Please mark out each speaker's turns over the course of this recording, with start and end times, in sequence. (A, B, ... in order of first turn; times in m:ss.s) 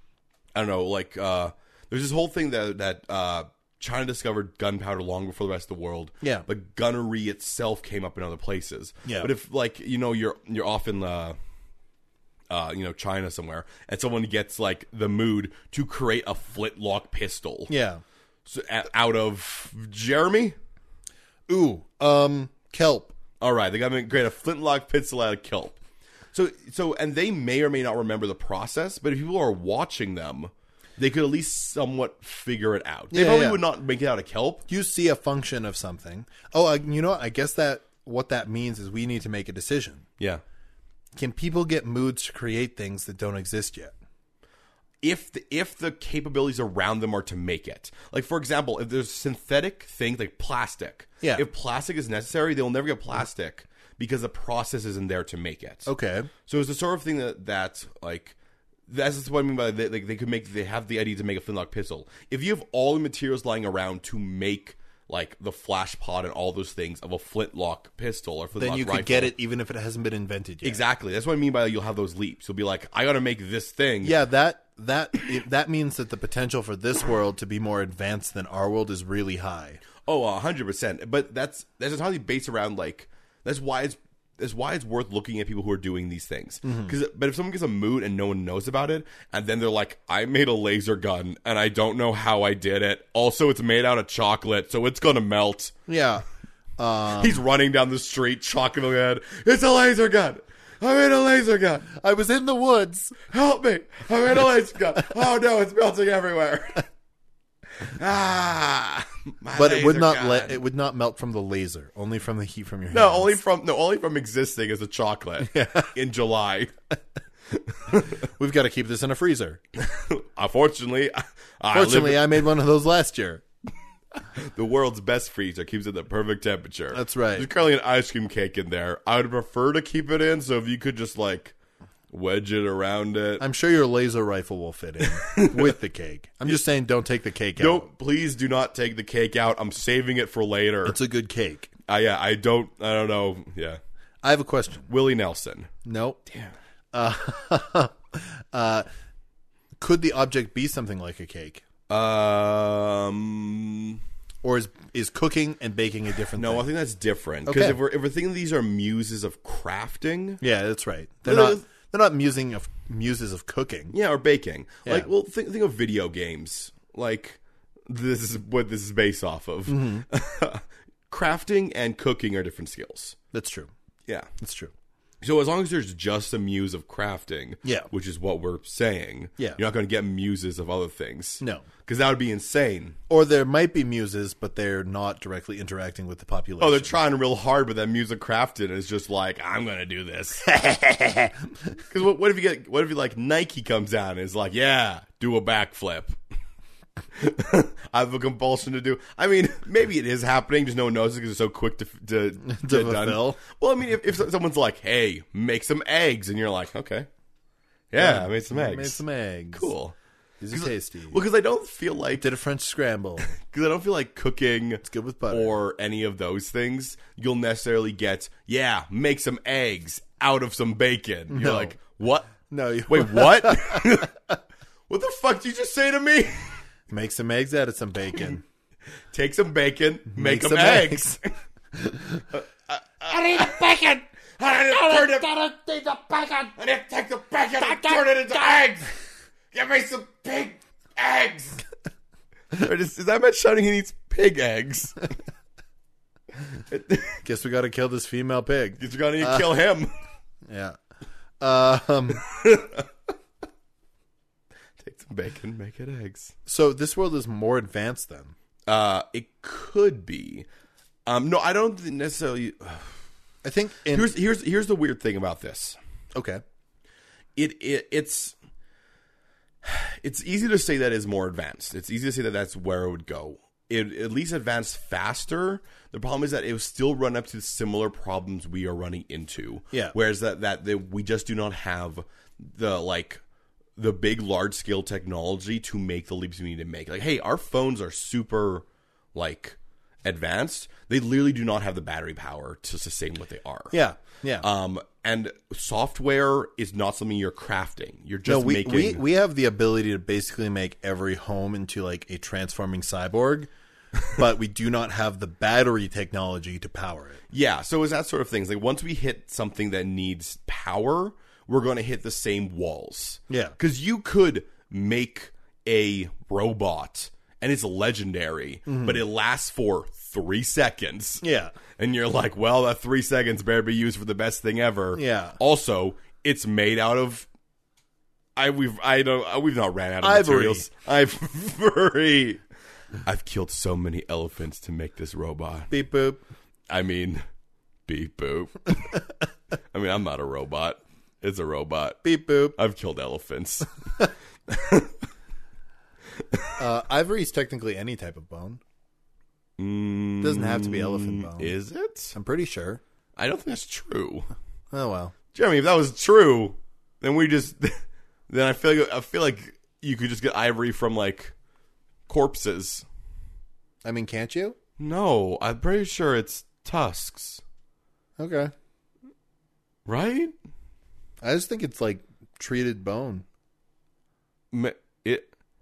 0:00.6-0:11.4 A
0:12.5-0:17.7 A
0:17.7-0:18.0 B
0:18.4-0:20.6 A
0:21.5-0:23.1 B
0:23.4-0:25.8 A
0:26.3-0:34.6 A
0:33.1-0:33.6 B
0:34.7-0:40.0 B
0:41.1-0:43.9 B
0:45.0-0:55.9 A
0:55.9-0:56.3 B
0:56.4-0:58.3 A
0:58.9-1:09.3 A
1:08.6-1:10.8 B
1:10.6-1:14.2 A
1:14.0-1:19.8 B
1:20.0-1:35.7 A
1:26.6-1:26.9 B
1:35.9-1:36.2 B
1:36.8-1:37.4 B
1:37.1-1:41.9 A
1:41.9-1:43.2 B
1:43.2-1:46.8 A
1:47.8-1:50.6 A
1:49.5-1:53.4 B
1:52.9-1:56.7 A
1:55.4-1:55.9 B
1:57.5-1:58.1 A
1:58.2-1:59.6 B
1:59.8-2:02.4 A
2:01.7-2:03.4 B
2:04.3-2:11.5 A
2:06.9-2:07.5 B
2:12.1-2:13.4 A
2:13.4-2:17.9 B
2:15.1-2:15.7 A
2:17.6-2:21.0 A
2:20.8-2:21.7 B
2:21.9-2:23.8 A
2:24.2-2:24.9 B
2:24.9-2:25.7 A
2:25.8-2:26.2 B
2:26.3-2:26.5 A
2:26.9-2:28.9 B
2:29.8-2:31.6 B
2:31.9-2:34.0 A
2:34.4-2:36.6 B
2:36.4-2:40.4 A
2:37.4-2:37.8 B
2:40.4-2:43.9 B
2:41.2-2:41.6 A
2:43.9-2:53.2 A
2:49.7-2:50.0 B
2:53.3-2:53.7 B
2:54.4-2:54.7 B
2:55.2-3:03.0 A
2:57.6-2:57.9 B
3:01.4-3:01.6 B
3:03.1-3:07.0 B
3:06.6-3:10.5 A
3:10.4-3:11.4 B
3:11.9-3:16.2 A
3:17.1-3:27.1 A
3:22.4-3:23.4 B
3:27.9-3:29.0 A
3:28.0-3:29.7 B
3:29.5-3:29.9 A
3:30.4-3:31.2 B
3:30.5-3:32.3 A
3:32.2-3:33.3 B
3:33.3-3:42.4 A
3:34.8-3:35.6 B
3:41.3-3:41.8 B
3:42.5-3:44.3 B
3:42.9-3:44.1 A
3:44.9-3:46.6 A
3:46.9-3:48.4 B
3:49.1-3:51.2 A
3:50.1-3:51.2 B
3:51.7-3:52.2 B
3:52.3-3:53.8 A
3:53.0-3:54.0 C
3:54.4-3:55.3 A
3:54.6-3:56.6 C
3:56.6-3:58.9 A
3:57.6-3:58.6 C
3:59.5-4:01.6 A
4:02.5-4:05.1 A
4:06.7-4:07.2 A
4:07.2-4:09.5 B
4:08.8-4:09.9 A
4:10.5-4:10.8 B
4:11.4-4:12.2 B
4:12.2-4:12.9 A
4:14.8-4:16.3 A
4:16.4-4:18.3 B
4:18.7-4:20.4 A
4:21.0-4:23.0 A
4:23.4-4:24.1 B
4:23.9-4:25.8 A
4:26.1-4:26.4 B
4:27.4-4:28.3 A
4:29.6-4:43.2 A
4:43.8-4:53.8 A
4:53.7-4:54.4 B
4:54.4-4:59.0 A
4:58.2-5:03.5 B
5:04.1-5:07.2 B
5:07.3-5:21.2 A
5:13.3-5:13.6 B
5:18.7-5:19.0 B
5:21.2-5:21.5 B
5:21.8-5:27.3 A
5:24.9-5:25.4 B
5:28.4-5:32.4 A
5:30.0-5:30.6 B
5:33.0-5:35.7 A
5:35.7-5:36.2 B
5:36.7-5:37.2 A
5:37.9-5:39.0 A
5:39.7-5:42.0 A
5:42.0-5:42.6 B
5:42.6-5:43.7 A
5:44.5-5:44.9 A
5:46.6-5:48.6 B
5:49.6-5:52.2 A
5:50.2-5:51.5 B
5:52.1-5:52.8 B
5:53.2-5:54.3 A
5:54.7-5:55.1 B
5:55.3-6:01.3 A
6:02.1-6:02.8 A
6:03.8-6:04.6 B
6:04.8-6:07.4 A
6:08.2-6:08.5 B
6:09.9-6:10.3 A
6:11.2-6:13.2 B
6:14.5-6:15.3 A